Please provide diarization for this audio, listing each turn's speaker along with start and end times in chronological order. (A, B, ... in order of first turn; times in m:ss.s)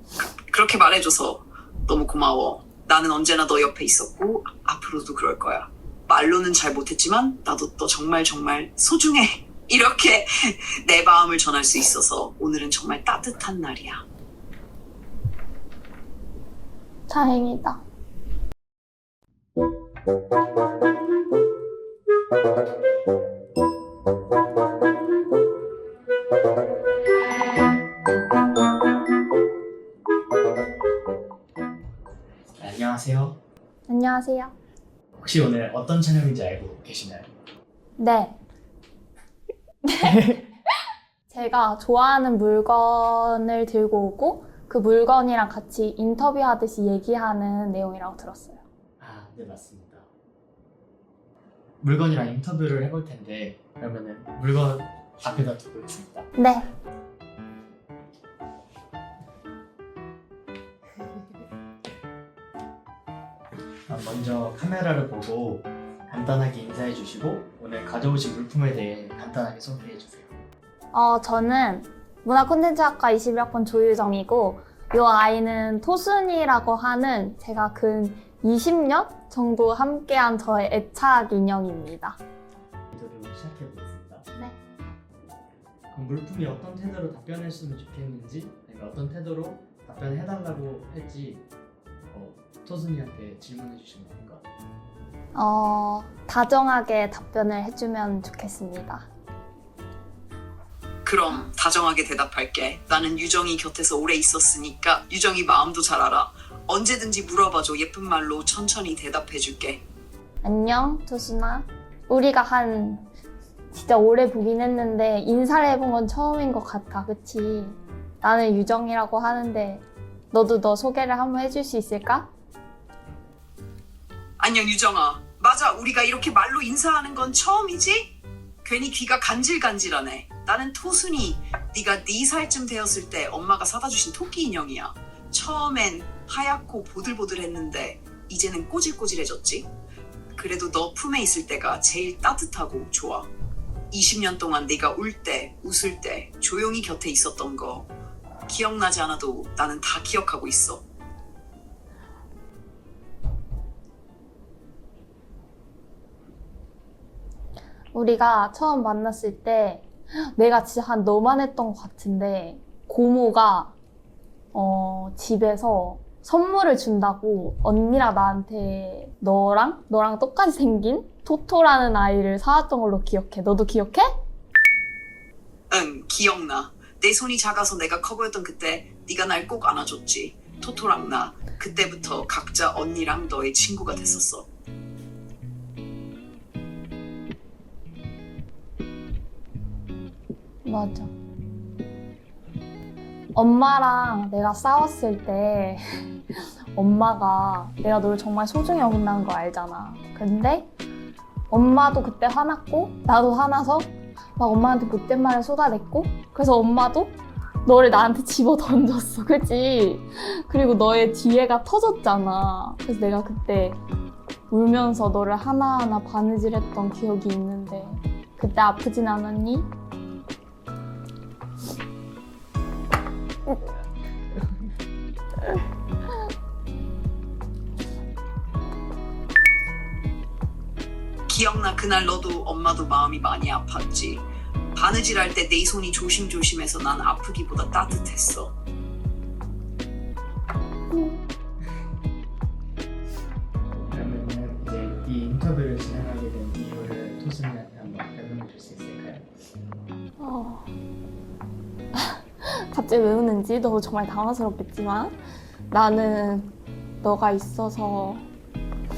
0:00.2-0:13.8 A
0:17.1-0:17.8 B
0:32.6-0:33.4 C
0:33.9-0:34.6 B
0:35.2-0:37.3 C
0:38.0-0:38.4 B
0:39.8-0:40.4 B
0:41.3-0:48.6 B
0:49.0-0:50.1 C
0:51.8-0:56.3 C
0:56.4-0:56.7 B
1:03.9-1:10.3 C
1:10.9-1:22.2 B
1:22.9-1:24.3 C
1:25.9-1:31.5 C
1:32.1-1:34.4 C
1:35.3-1:39.1 B
1:41.0-1:48.6 A
1:50.4-1:53.1 B
1:53.7-2:02.3 B
2:04.4-2:08.1 A
2:08.6-2:19.7 A
2:20.4-2:23.3 A
2:23.9-2:27.8 A
2:28.5-2:30.8 A
2:37.9-2:43.8 B
2:44.5-2:54.1 B
2:55.7-3:04.4 A
3:10.6-3:11.1 B
3:13.3-3:20.7 B
3:21.5-3:33.8 B
3:34.5-3:39.7 B
3:51.3-3:58.5 A
4:00.9-4:01.2 B
4:03.7-4:09.3 C
4:10.2-4:10.7 B
4:12.0-4:15.1 B
4:15.7-4:18.3 B